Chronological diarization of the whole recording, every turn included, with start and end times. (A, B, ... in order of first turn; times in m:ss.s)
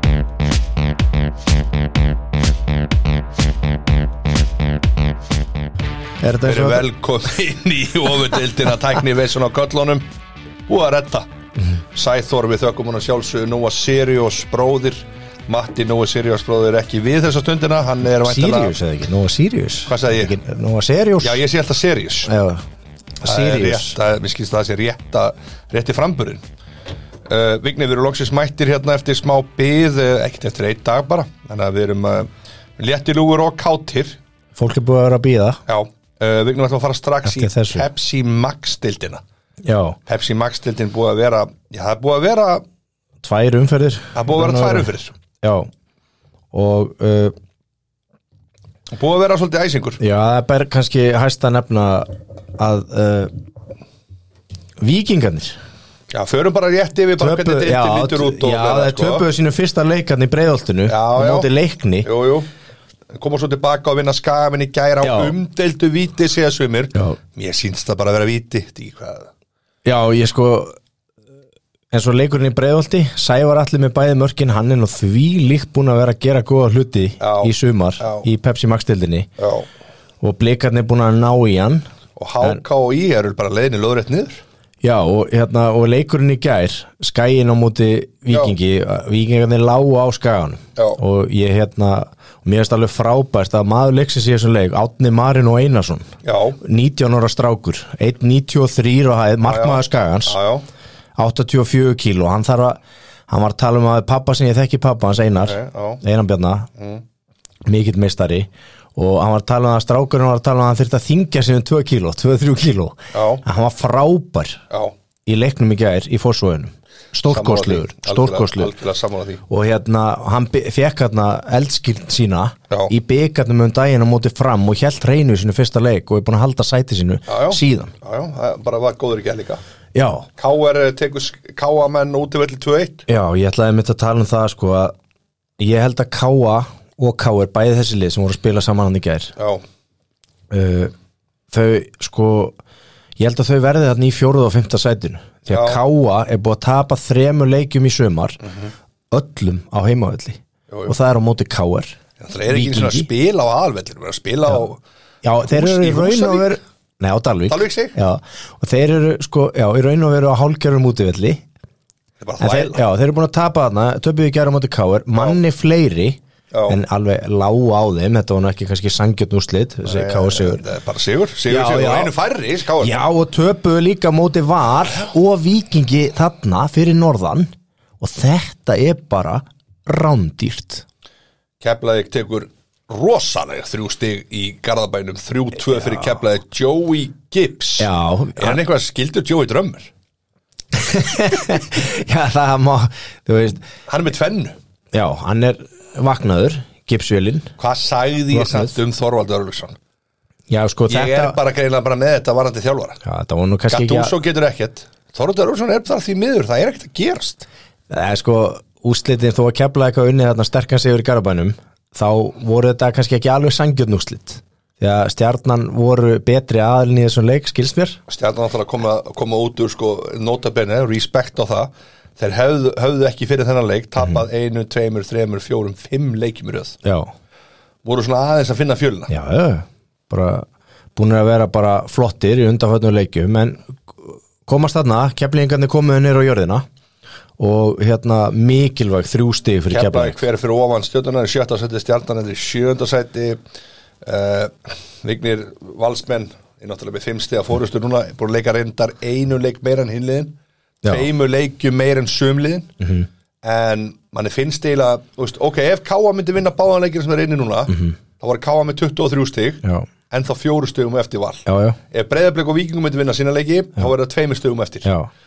0:06.2-0:06.9 A
0:06.4-0:10.0 B
0:10.7-0:11.3 B
0:11.9-0:18.7 B
0:18.2-0:21.4 A
0:19.9-0:20.4 B
0:21.2-0:22.3 B
0:22.2-0:22.6 A
0:23.2-0:26.4 B
0:23.2-0:23.9 A
0:27.3-0:34.2 B
0:34.6-0:35.6 A
0:35.7-0:39.2 B
0:37.2-0:37.9 A
0:39.6-0:40.0 A
0:40.1-0:42.6 B
0:43.2-0:44.9 A
0:44.1-0:45.1 B
0:45.4-0:45.7 A
0:46.5-0:47.3 A
0:48.9-0:50.0 B
0:50.0-0:53.3 A
0:54.8-0:55.6 A
0:56.1-0:59.3 B
0:57.2-1:02.1 A
1:00.9-1:01.5 B
1:02.0-1:02.5 B
1:03.1-1:09.3 B
1:05.0-1:05.3 A
1:09.8-1:10.8 A
1:11.9-1:19.3 A
1:17.2-1:18.2 B
1:19.4-1:19.7 B
1:20.2-1:21.8 A
1:22.2-1:24.4 B
1:24.8-1:40.4 A
1:28.3-1:28.5 B
1:36.2-1:36.6 B
1:39.4-1:40.6 B
1:41.2-1:46.7 A
1:45.4-1:46.0 B
1:46.8-1:47.0 B
1:47.6-1:54.6 A
1:53.1-1:53.4 B
1:54.7-1:54.9 B
1:55.2-1:58.7 A
1:57.3-1:59.4 B
1:59.5-2:07.9 A
2:07.3-2:09.6 B
2:09.9-2:10.3 A
2:10.4-2:13.0 B
2:13.1-2:14.9 A
2:15.6-2:19.3 A
2:19.4-2:19.6 B
2:20.5-2:20.9 A
2:21.5-2:22.6 A
2:23.2-2:28.4 A
2:25.5-2:25.8 B
2:28.4-2:28.7 B
2:29.1-2:32.0 A
2:30.7-2:31.0 B
2:32.2-2:34.8 B
2:32.5-2:33.1 A
2:35.2-2:41.4 A
2:35.4-2:36.6 B
2:37.5-2:38.0 B
2:42.2-2:42.8 B
2:42.4-2:50.6 A
2:46.5-2:46.8 B
2:49.8-2:53.0 B
2:51.5-2:52.1 A
2:52.8-3:00.8 A
3:01.6-3:09.9 B
3:07.8-3:08.6 A
3:10.7-3:13.6 A
3:13.9-3:14.6 B
3:14.9-3:17.5 A
3:17.6-3:19.8 B
3:18.3-3:18.7 A
3:20.5-3:21.4 A
3:20.9-3:23.0 B
3:23.0-3:24.1 A
3:23.7-3:27.4 B
3:27.9-3:38.0 A
3:38.1-3:46.8 B
3:46.8-3:47.1 A
3:47.8-3:49.1 B
3:49.1-3:56.6 A
3:57.4-4:00.2 A
3:59.7-4:03.4 B
4:04.0-4:12.7 B
4:12.8-4:13.1 A
4:13.4-4:24.9 B
4:21.4-4:21.8 A